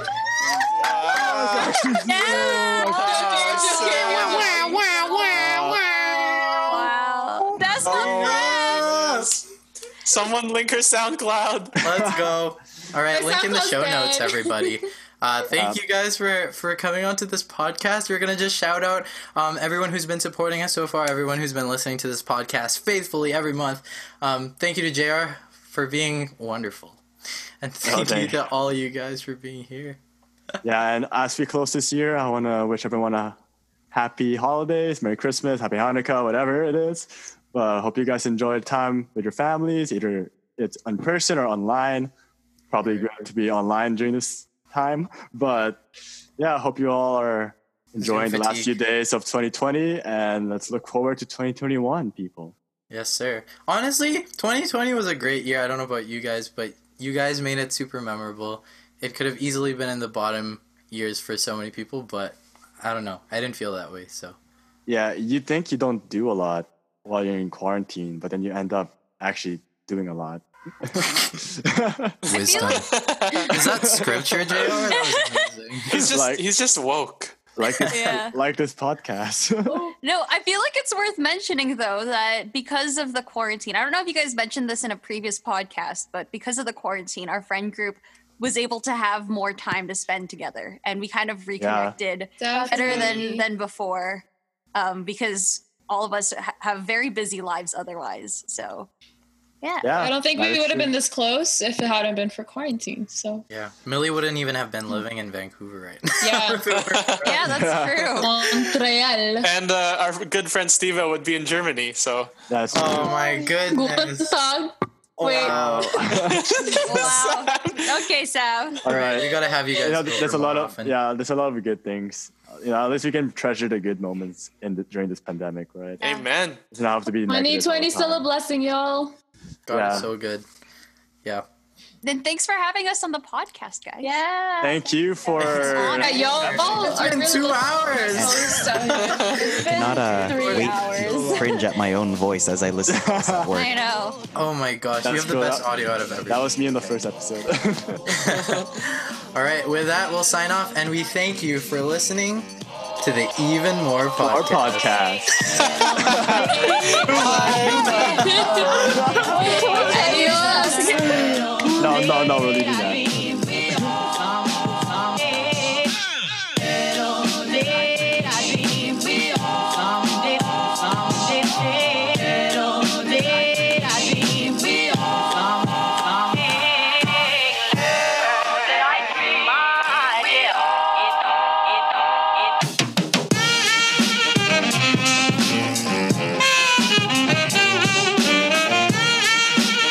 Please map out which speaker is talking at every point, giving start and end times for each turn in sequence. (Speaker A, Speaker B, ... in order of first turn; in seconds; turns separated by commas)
Speaker A: 0.5-1.7, Speaker B: 1.1-2.9, Speaker C: 1.5-4.1, Speaker A: 2.4-6.5, Speaker D: 2.8-5.2, Speaker B: 5.3-5.8, Speaker C: 6.7-8.9, Speaker A: 7.8-9.4, Speaker E: 7.8-9.4, Speaker A: 10.1-11.9, Speaker E: 11.8-27.0, Speaker D: 13.1-14.8, Speaker E: 27.6-30.0, Speaker B: 27.9-28.4, Speaker B: 30.6-33.4, Speaker B: 33.9-42.1, Speaker B: 42.7-45.8, Speaker B: 46.4-52.5, Speaker E: 48.0-48.8, Speaker E: 52.9-64.4, Speaker B: 64.9-72.2, Speaker C: 72.3-73.5, Speaker E: 72.3-72.9, Speaker A: 72.5-74.8, Speaker E: 73.5-75.9, Speaker B: 73.5-74.7, Speaker C: 74.9-75.4, Speaker A: 75.9-77.8, Speaker B: 75.9-76.5, Speaker B: 77.6-79.9, Speaker C: 77.9-78.3, Speaker C: 80.0-98.9, Speaker B: 91.6-92.0, Speaker D: 92.4-93.4, Speaker F: 92.5-93.1, Speaker C: 99.6-100.0, Speaker B: 99.8-100.9, Speaker D: 99.9-103.5, Speaker E: 103.5-107.7, Speaker D: 106.2-106.7, Speaker A: 106.9-107.3, Speaker C: 107.2-108.3, Speaker B: 107.5-108.2, Speaker D: 108.2-109.5, Speaker A: 109.4-112.3, Speaker B: 112.5-113.1, Speaker E: 112.7-114.4, Speaker D: 113.6-115.6, Speaker E: 115.2-116.2, Speaker B: 115.4-116.5, Speaker A: 116.1-118.1, Speaker C: 116.8-119.0, Speaker B: 118.8-126.0, Speaker E: 118.9-121.0, Speaker C: 126.0-126.3, Speaker A: 126.0-126.6, Speaker B: 126.7-128.3, Speaker D: 127.3-129.2, Speaker E: 129.7-130.5, Speaker B: 129.7-130.1, Speaker C: 132.0-134.2, Speaker F: 134.0-134.8, Speaker B: 134.6-136.2, Speaker C: 135.3-137.6, Speaker E: 135.4-139.5, Speaker D: 136.0-139.5, Speaker G: 138.1-138.7, Speaker A: 139.1-139.4, Speaker F: 139.4-141.7, Speaker G: 139.5-143.7, Speaker E: 140.3-141.6, Speaker B: 142.9-143.5, Speaker C: 143.5-144.2, Speaker E: 144.3-147.0, Speaker B: 145.0-145.7, Speaker B: 146.3-148.3, Speaker E: 148.1-152.5, Speaker E: 153.0-154.9, Speaker B: 154.2-155.4, Speaker A: 155.8-156.1, Speaker B: 156.0-160.0, Speaker E: 156.7-159.9, Speaker D: 157.1-160.9, Speaker A: 157.6-157.8, Speaker F: 159.2-161.4, Speaker C: 159.5-161.3, Speaker B: 161.1-164.0, Speaker C: 179.2-180.3